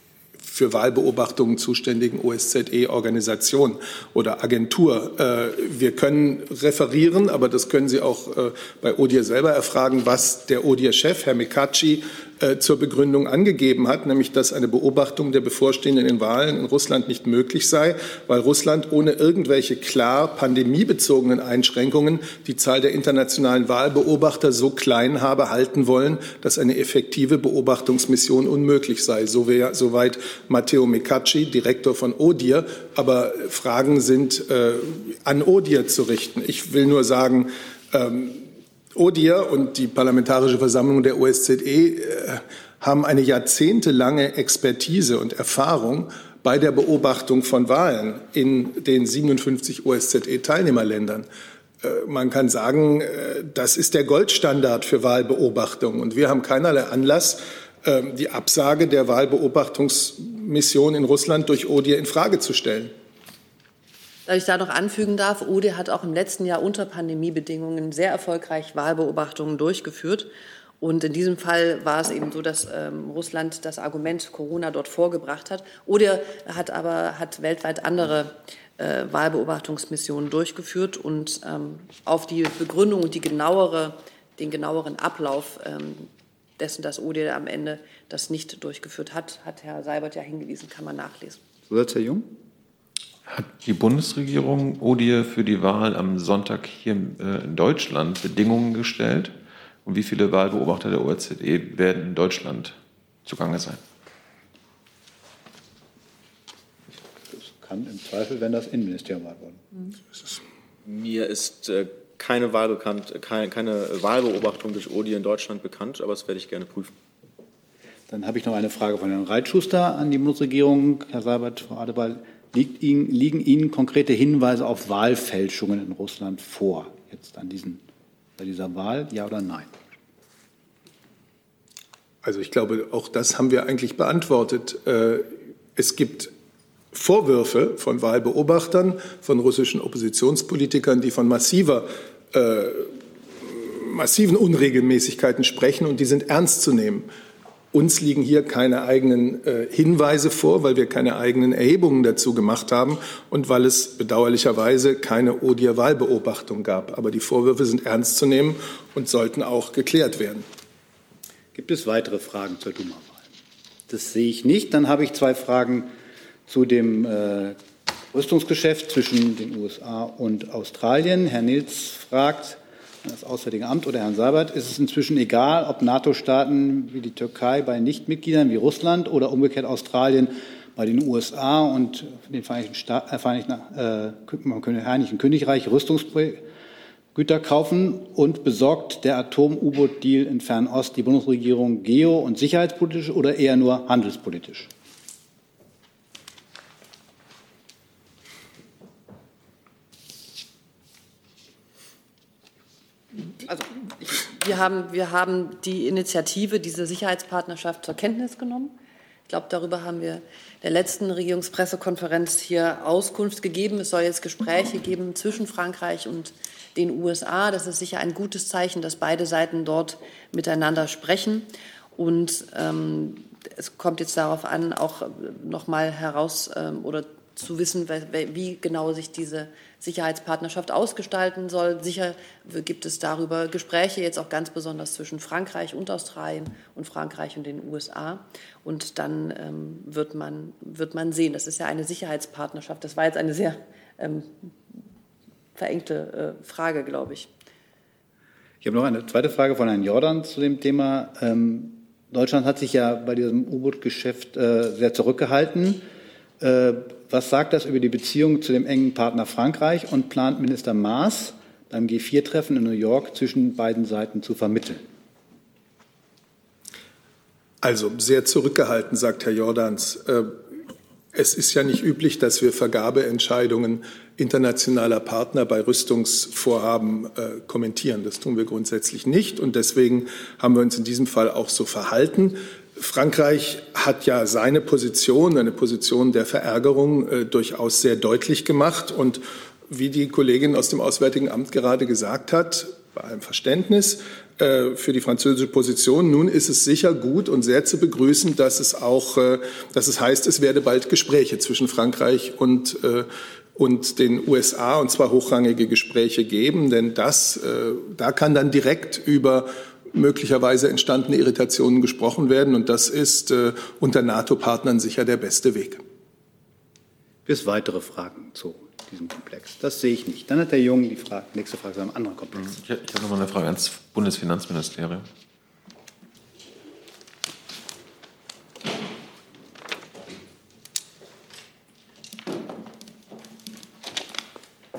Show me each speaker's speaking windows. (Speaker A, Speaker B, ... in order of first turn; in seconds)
Speaker A: 0.4-51.3, 51.8-62.9, 132.2-136.3, 136.9-142.9, 143.4-147.1, 147.7-160.5, 267.6-270.4, 271.1-315.8
Speaker B: 64.3-70.3, 70.8-91.4, 203.4-208.7, 209.3-244.5, 245.6-247.3
Speaker C: 91.7-92.3, 107.3-109.6, 118.1-127.8, 128.4-129.7, 161.6-163.2, 163.9-165.9, 166.5-167.6, 168.1-186.4, 187.2-194.7, 248.6-255.8, 256.4-264.8, 317.3-322.6
Speaker D: 93.3-103.8, 322.4-325.1
Speaker E: 110.8-116.9